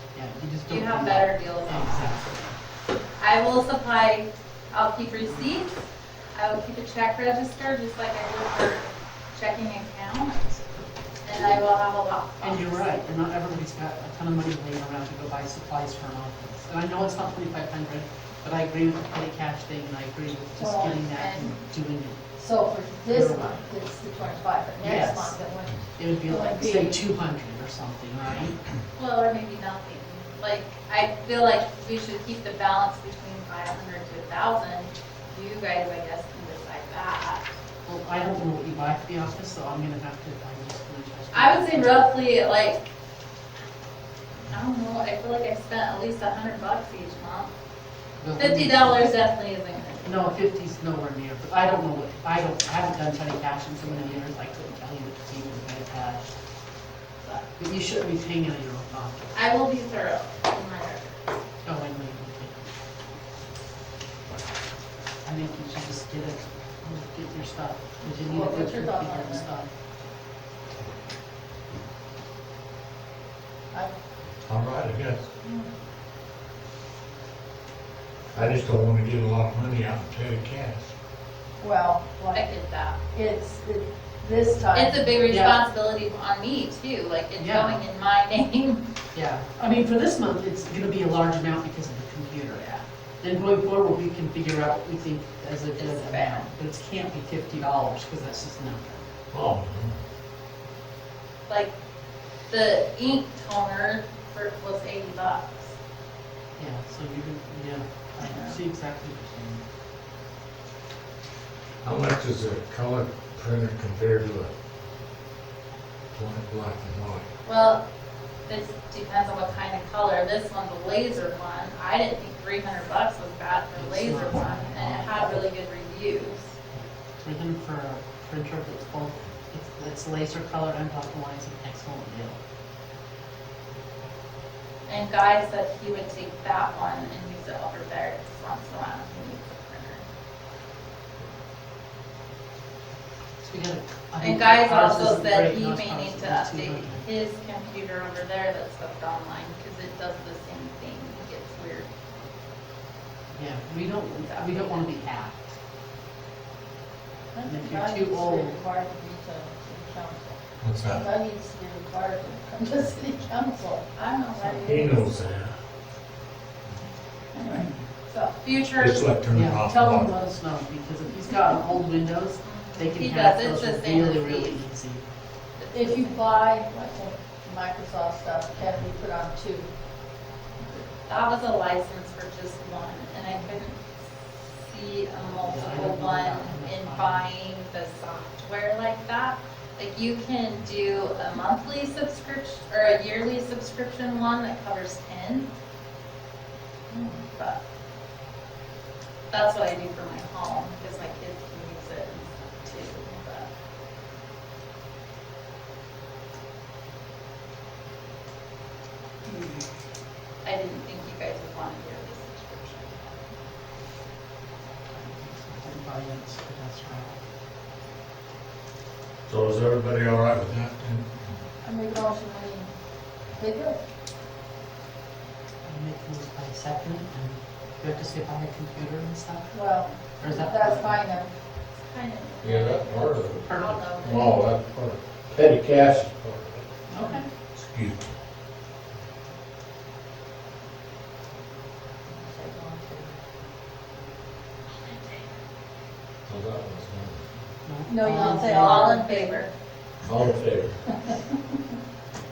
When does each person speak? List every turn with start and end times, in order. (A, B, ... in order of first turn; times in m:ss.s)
0:00.1-0:02.5 A
0:00.7-0:02.2 B
0:03.2-0:10.6 B
0:11.2-0:12.8 B
0:12.4-0:22.2 A
0:20.6-0:21.5 C
0:21.2-0:21.5 B
0:22.4-0:27.0 C
0:23.1-0:23.6 A
0:24.8-0:25.4 A
0:26.0-0:28.7 A
0:29.0-0:37.5 B
0:37.8-0:42.1 A
0:41.3-0:42.9 B
0:44.5-0:47.5 B
0:48.2-0:49.2 A
0:48.4-0:50.2 B
0:50.0-0:56.3 A
0:57.2-0:59.3 A
0:59.3-1:01.4 B
1:01.6-1:02.6 A
1:05.2-1:09.7 A
1:08.2-1:09.5 C
1:14.4-1:15.3 D
1:18.3-1:20.9 D
1:21.6-1:22.5 C
1:22.3-1:23.0 B
1:23.1-1:25.5 C
1:24.7-1:28.9 B
1:25.3-1:25.6 A
1:27.4-1:27.8 A
1:29.1-1:39.0 A
1:35.8-1:36.5 B
1:39.3-1:40.0 D
1:41.5-1:41.7 B
1:42.5-1:45.7 B
1:46.6-1:49.6 A
1:48.2-1:48.6 B
1:51.8-1:54.5 D
1:56.1-1:57.3 D
1:57.4-1:57.8 B
1:58.4-2:06.5 B
2:03.8-2:05.4 A
2:06.7-2:12.4 A
2:14.9-2:20.0 B
2:23.4-2:27.0 A
2:24.2-2:31.9 B
2:33.3-2:35.5 A
2:34.2-2:34.9 B
2:37.3-2:43.8 C
2:37.5-2:38.6 A
2:40.6-2:41.0 D
2:43.9-2:45.0 B
2:44.5-2:45.5 D
2:47.4-2:47.7 C
2:48.1-2:49.0 B
2:48.8-2:50.1 D
2:49.3-2:55.0 A
2:52.4-2:54.6 B
2:55.6-2:56.3 B
2:55.7-2:59.7 C
3:01.1-3:15.5 B
3:05.2-3:07.3 A
3:16.9-3:17.6 B
3:19.3-3:23.5 B
3:30.4-3:33.3 B
3:34.9-3:37.2 A
3:39.3-3:41.1 D
3:41.6-3:42.7 C
3:43.4-3:43.8 C
3:45.6-3:49.6 A
3:49.5-3:51.3 C
3:50.2-3:51.0 A
3:51.8-3:54.4 B
3:52.4-3:56.7 D
3:56.9-3:57.2 A
3:56.9-3:57.2 C
3:57.6-3:58.1 D
4:02.1-4:03.2 C
4:06.2-4:07.2 D
4:07.6-4:08.9 A
4:07.9-4:09.4 C
4:08.0-4:09.5 B
4:10.0-4:10.8 D